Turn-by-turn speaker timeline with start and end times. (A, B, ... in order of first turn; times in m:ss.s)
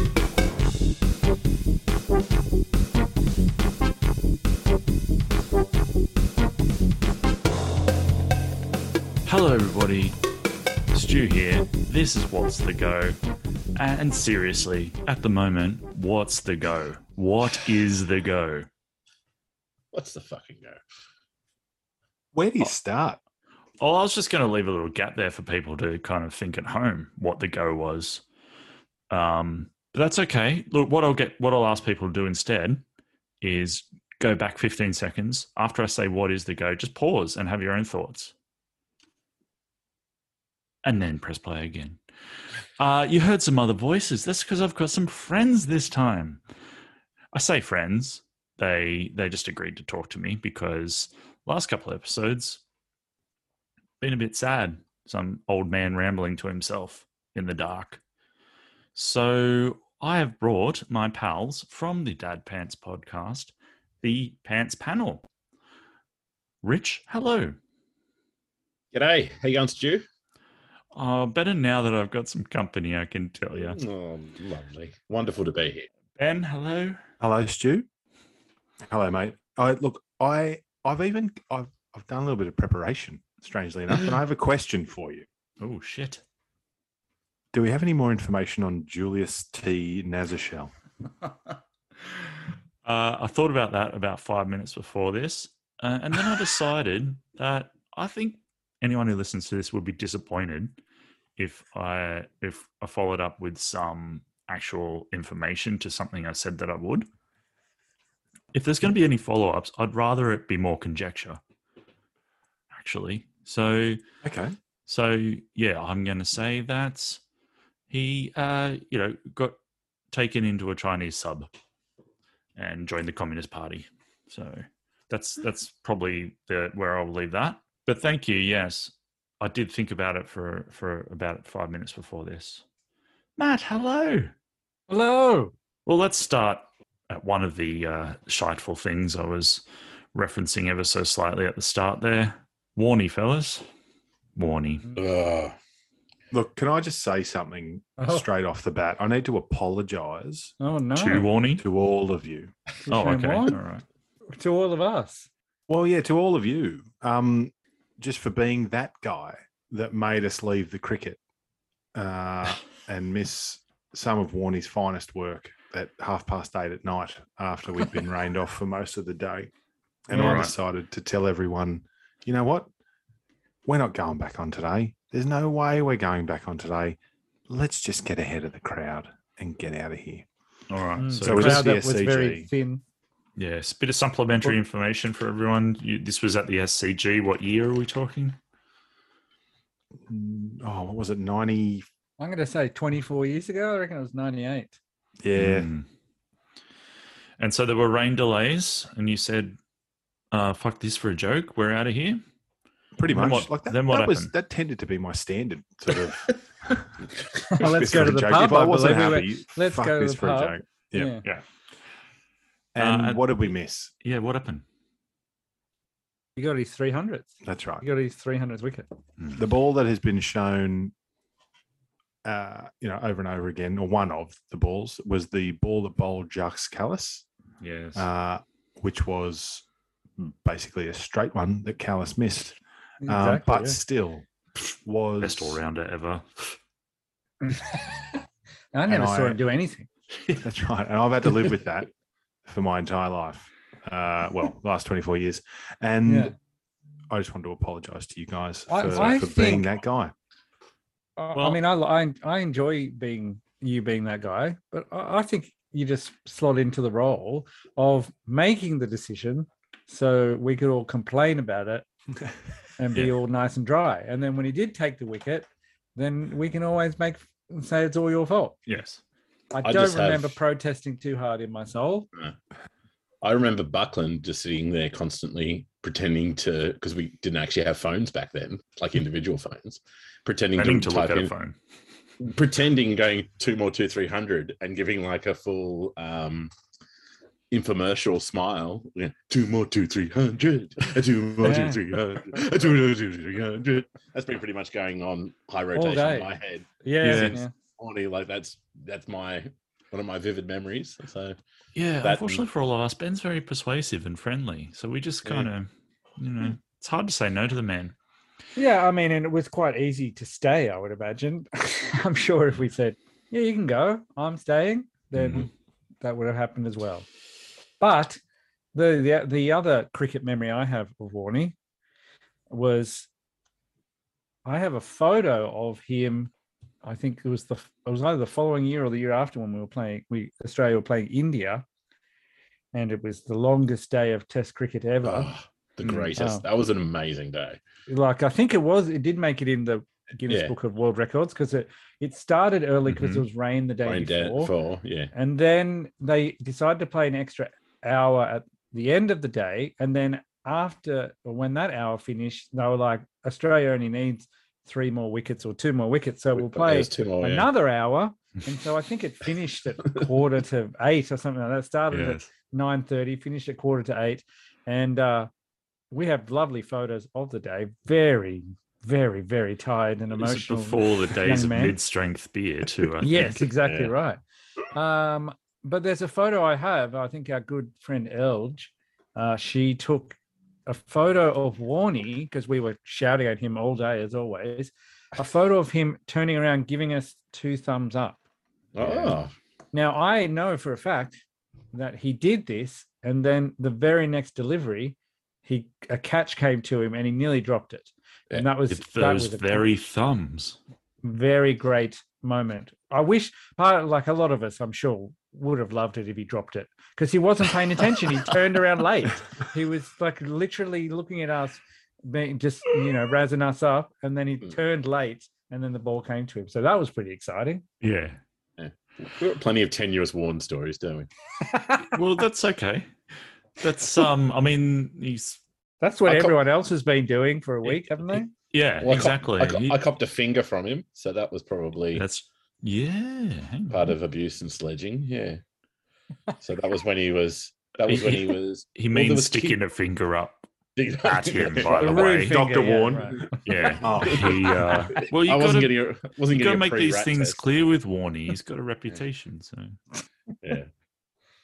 0:09.2-0:10.2 A
0:10.9-0:13.2 A
0:13.8-0:18.7 A
0:19.9-0:20.8 B
0:22.3-0:23.2 C
0:23.8-0:28.2 A
0:29.1-0:32.8 A
0:33.4-0:38.3 A
0:40.8-0:42.0 A
0:42.8-0:46.4 A
0:47.3-0:52.6 A
0:54.0-0:58.0 A
0:59.0-1:05.3 A
1:06.6-1:07.6 A
1:08.9-1:10.0 B
1:10.9-1:13.8 A
1:13.5-1:15.9 B
1:16.2-1:17.0 A
1:17.2-1:17.8 C
1:18.9-1:25.2 C
1:25.6-1:26.2 A
1:27.5-1:30.7 C
1:32.8-1:40.8 A
1:41.4-1:47.1 A
1:48.5-1:51.4 A
1:52.7-1:54.0 A
1:54.2-1:54.6 C
1:54.9-1:57.2 A
1:57.9-1:59.6 A
2:00.1-2:01.5 A
2:02.6-2:12.6 A
2:13.4-2:14.3 A
2:14.9-2:15.5 D
2:15.9-2:19.6 A
2:20.1-2:23.6 A
2:24.4-2:24.9 A
2:24.9-2:25.6 B
2:26.3-2:30.5 C
2:28.0-2:28.2 D
2:30.6-2:31.2 D
2:31.0-2:31.7 A
2:31.6-2:32.5 C
2:32.9-2:33.6 D
2:32.9-2:33.8 A
2:34.3-2:35.3 D
2:35.7-2:41.2 C
2:42.0-2:49.5 C
2:50.1-2:52.7 C
2:50.1-2:50.5 D
2:50.1-2:50.5 A
2:53.7-3:00.2 C
3:00.7-3:01.7 A
3:01.0-3:02.8 D
3:01.2-3:02.5 C
3:03.4-3:08.4 A
3:10.1-3:11.8 C
3:12.2-3:14.8 D
3:15.2-3:15.7 C
3:15.4-3:15.8 A
3:17.4-3:19.6 A
3:20.3-3:22.2 A
3:23.0-3:27.0 C
3:23.1-3:24.3 A
3:27.5-3:31.2 D
3:27.5-3:31.2 C
3:32.8-3:33.9 C
3:32.8-3:33.3 A
3:34.0-3:34.6 A
3:36.4-3:38.9 D
3:37.4-3:37.8 C
3:39.4-3:40.9 C
3:42.2-3:47.2 C
3:47.6-3:48.1 A
3:48.0-3:49.6 C
3:50.2-3:55.6 C
3:53.0-3:53.8 D
3:55.2-3:56.6 A
3:57.4-3:58.2 D
3:58.7-3:59.9 D
3:58.9-3:59.4 C
4:00.4-4:01.9 C
4:02.5-4:06.3 C
4:06.0-4:06.3 D
4:07.1-4:10.1 C
4:08.7-4:09.7 D
4:11.2-4:21.8 D
4:11.3-4:11.6 A
4:22.8-4:28.6 D
4:28.6-4:29.0 A
4:29.5-4:32.1 D
4:29.6-4:30.4 B
4:33.2-4:41.3 B
4:40.6-4:41.6 A
4:42.2-4:46.5 B
4:47.5-5:01.4 B
4:51.4-4:51.8 D
4:55.8-4:56.3 D
4:56.8-4:57.5 D
4:57.0-4:57.4 A
5:01.8-5:07.9 A
5:02.0-5:02.4 B
5:08.6-5:15.5 D
5:15.1-5:15.5 A
5:16.0-5:17.1 D
5:17.8-5:18.2 D
5:18.7-5:21.5 D
5:22.5-5:23.1 D
5:24.4-5:26.3 D
5:26.8-5:31.6 D
5:32.7-5:35.3 D
5:35.0-5:37.6 B
5:35.8-5:36.1 A
5:36.2-5:36.4 D
5:37.9-5:44.5 D
5:40.3-5:40.5 B
5:42.8-5:43.2 A
5:43.8-5:45.1 B
5:45.1-6:05.3 D
5:56.4-5:57.5 B
6:01.9-6:02.2 A
6:05.9-6:11.8 D
6:10.2-6:13.4 A
6:13.0-6:14.2 D
6:13.6-6:13.9 B
6:14.7-6:28.2 D
6:28.8-6:29.3 B
6:28.8-6:29.2 D
6:29.7-6:31.2 D
6:31.7-6:39.7 D
6:38.7-6:40.6 A
6:41.0-6:57.6 D
6:57.8-6:58.2 A
6:58.6-7:01.1 B
7:01.4-7:02.0 D
7:01.9-7:02.9 A
7:03.6-7:05.4 A
7:05.8-7:08.3 D
7:06.1-7:06.4 B
7:08.5-7:09.8 A
7:08.8-7:12.0 B
7:11.9-7:14.0 A
7:13.7-7:15.4 B
7:16.4-7:19.6 B
7:17.8-7:20.5 A
7:20.8-7:22.2 B
7:21.0-7:22.4 A
7:21.7-7:23.4 D
7:22.2-7:24.4 C
7:23.3-7:27.4 B
7:23.4-7:29.8 A
7:30.4-7:30.7 B